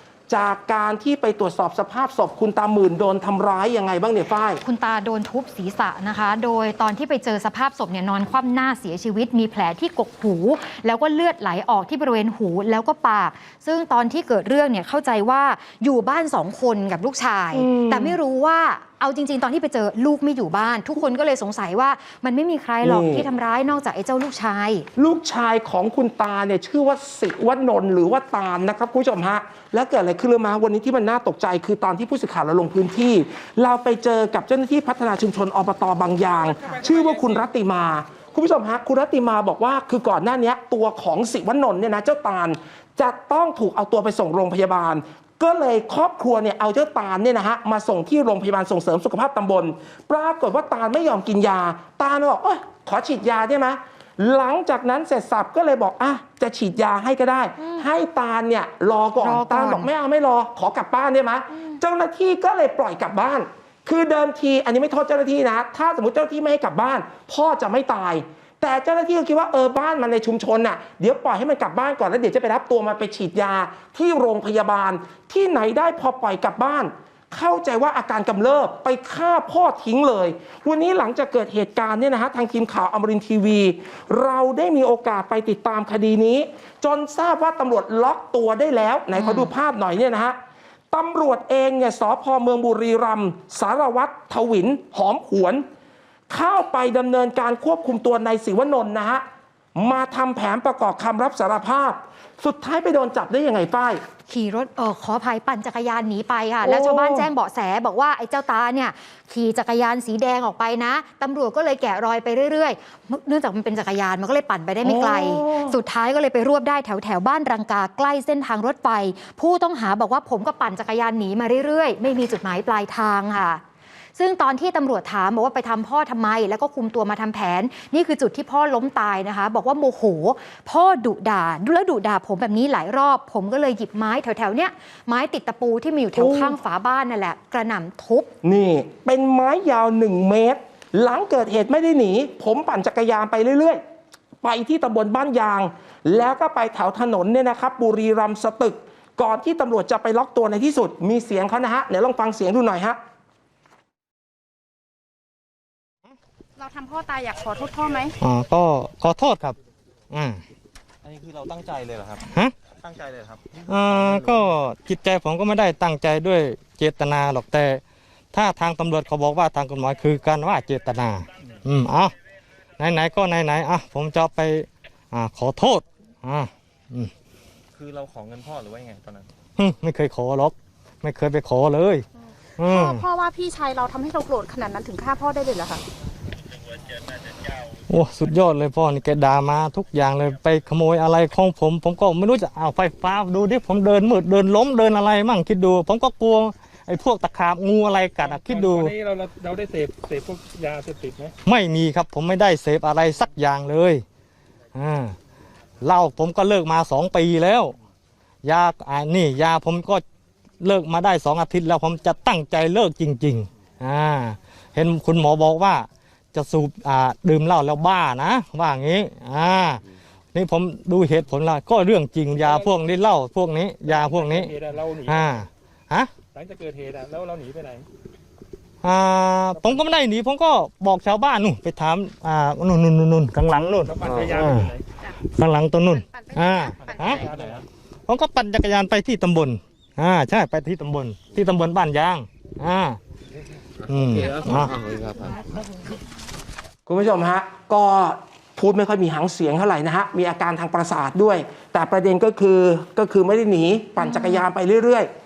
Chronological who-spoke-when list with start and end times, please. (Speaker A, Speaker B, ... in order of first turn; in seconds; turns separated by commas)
Speaker A: 0.3-4.6, Speaker B: 4.6-24.9, Speaker A: 17.5-18.2, Speaker A: 22.8-23.3, Speaker A: 25.0-90.4, Speaker C: 36.4-37.4, Speaker B: 59.2-59.9, Speaker B: 89.2-89.5, Speaker A: 90.9-95.7, Speaker A: 96.3-99.2, Speaker A: 99.8-104.0, Speaker B: 104.3-123.6, Speaker A: 106.6-107.3, Speaker A: 114.8-115.8, Speaker B: 124.2-138.3, Speaker A: 136.2-136.6, Speaker A: 138.4-143.8, Speaker A: 144.4-153.0, Speaker D: 156.6-158.2, Speaker E: 158.2-159.6, Speaker E: 160.1-160.4, Speaker F: 161.0-164.5, Speaker E: 162.2-162.6, Speaker E: 163.7-167.8, Speaker E: 168.3-172.1, Speaker E: 172.8-177.1, Speaker F: 177.7-179.3, Speaker E: 179.6-182.1, Speaker E: 182.6-183.1, Speaker D: 182.7-185.8, Speaker E: 187.9-198.9, Speaker C: 198.2-201.3, Speaker E: 201.4-204.0, Speaker E: 204.8-205.2, Speaker E: 205.8-207.8, Speaker E: 208.4-210.0, Speaker E: 210.6-219.8, Speaker E: 220.3-224.5, Speaker C: 222.4-222.7, Speaker C: 223.8-225.4, Speaker E: 225.1-226.1, Speaker C: 226.3-227.9, Speaker E: 228.8-237.2, Speaker C: 229.6-229.8, Speaker C: 233.8-234.9, Speaker D: 236.2-237.1, Speaker F: 236.9-237.6, Speaker C: 237.1-237.6, Speaker E: 238.1-243.0, Speaker E: 243.9-244.8, Speaker F: 243.9-245.4, Speaker A: 246.9-255.1, Speaker B: 254.0-254.4